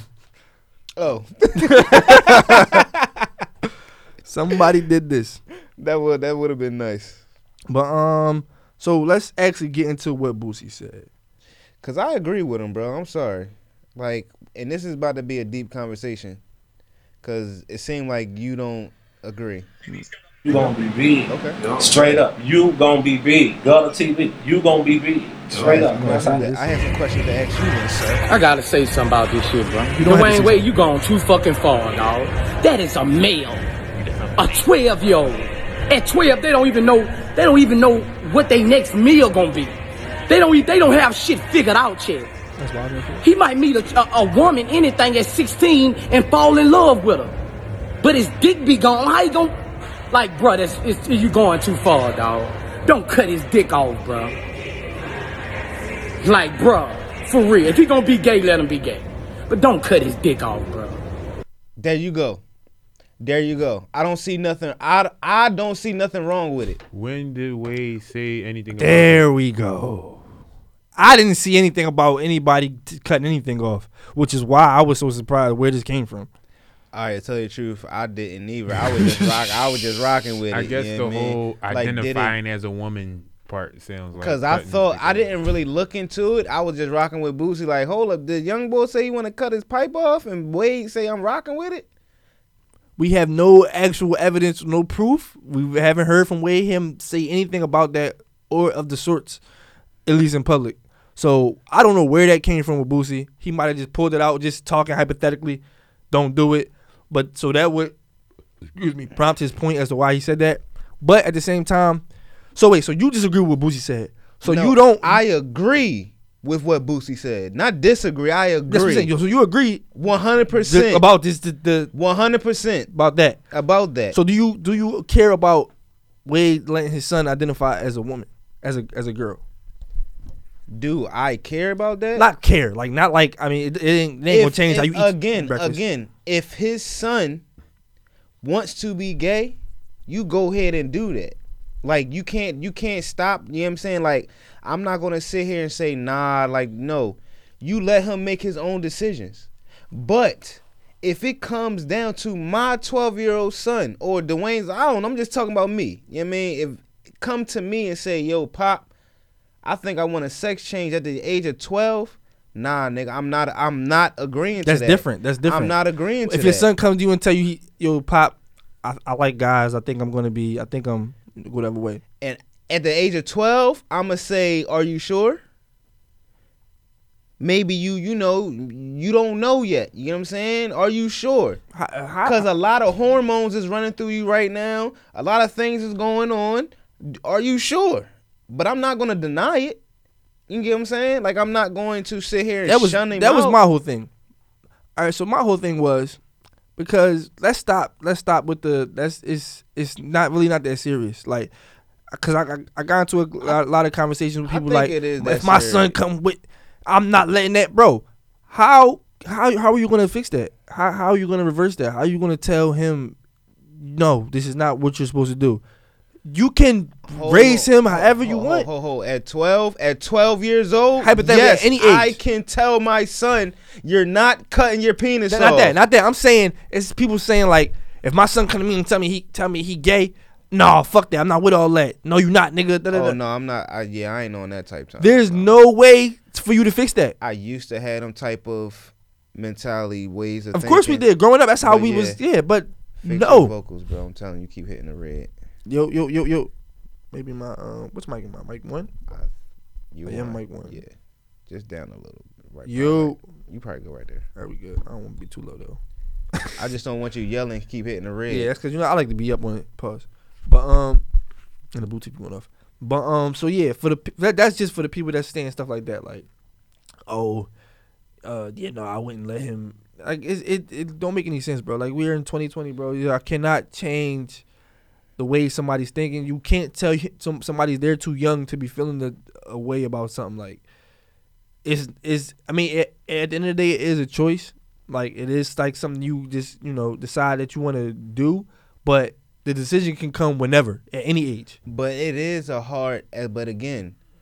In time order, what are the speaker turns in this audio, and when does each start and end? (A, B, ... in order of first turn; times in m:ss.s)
0:01.0-0:03.2 A
0:01.7-0:02.8 B
0:04.2-0:05.4 B
0:05.8-0:07.2 A
0:07.7-0:11.1 B
0:11.8-0:16.4 A
0:17.2-0:19.7 A
0:20.4-0:26.4 C
0:21.3-0:21.6 A
0:25.6-0:28.2 A
0:25.7-0:26.7 B
0:28.3-0:33.6 D
0:29.9-0:30.7 B
0:34.3-0:39.8 D
0:40.3-0:42.3 D
0:42.6-0:43.2 B
0:43.2-0:47.4 D
0:48.0-0:49.5 D
0:50.1-0:54.3 D
0:56.2-1:01.0 D
1:01.8-1:02.4 A
1:03.2-1:06.8 A
1:06.9-1:09.3 E
1:08.8-1:10.2 B
1:11.0-1:16.3 B
1:16.9-1:22.4 A
1:19.0-1:19.5 B
1:20.5-1:25.4 E
1:24.2-1:31.8 A
1:33.0-1:39.4 B
1:40.0-1:47.9 B
1:48.8-1:52.0 B
1:52.5-1:55.2 B
1:54.4-1:59.1 A
1:58.7-2:01.9 B
1:59.9-2:01.0 A
2:01.9-2:02.9 A
2:02.9-2:03.4 B
2:03.5-2:04.2 A
2:04.1-2:05.7 B
2:06.2-2:09.4 B
2:10.7-2:12.3 A
2:12.2-2:15.8 B
2:14.3-2:17.4 A
2:18.4-2:38.9 A
2:39.6-2:46.7 A
2:44.6-2:52.0 B
2:52.2-2:55.4 A
2:57.4-3:01.6 A
3:01.7-3:02.4 B
3:02.2-3:09.8 A
3:10.5-3:13.6 A
3:12.6-3:14.1 B
3:15.0-3:16.2 B
3:16.8-3:21.5 B
3:22.1-3:33.2 B
3:24.5-3:25.9 A
3:33.8-3:35.6 B
3:36.3-3:38.7 B
3:37.1-3:45.8 A
3:41.0-3:42.2 B
3:45.3-3:53.2 B
3:52.9-3:55.5 A
3:55.0-3:57.1 B
3:57.2-4:01.1 A
4:00.5-4:03.5 B
4:01.6-4:02.2 A
4:03.0-4:05.3 A
4:05.6-4:06.5 B
4:07.1-4:08.9 B
4:09.9-4:10.9 A
4:10.0-4:10.8 B
4:11.5-4:14.2 A
4:12.6-4:13.2 B
4:14.4-4:15.8 B
4:16.6-4:18.5 A
4:18.3-4:21.0 B
4:21.7-4:26.2 B
4:27.1-4:27.5 B
4:28.2-4:34.4 B
4:35.2-4:40.6 B
4:41.6-4:51.6 B
4:51.6-4:53.9 A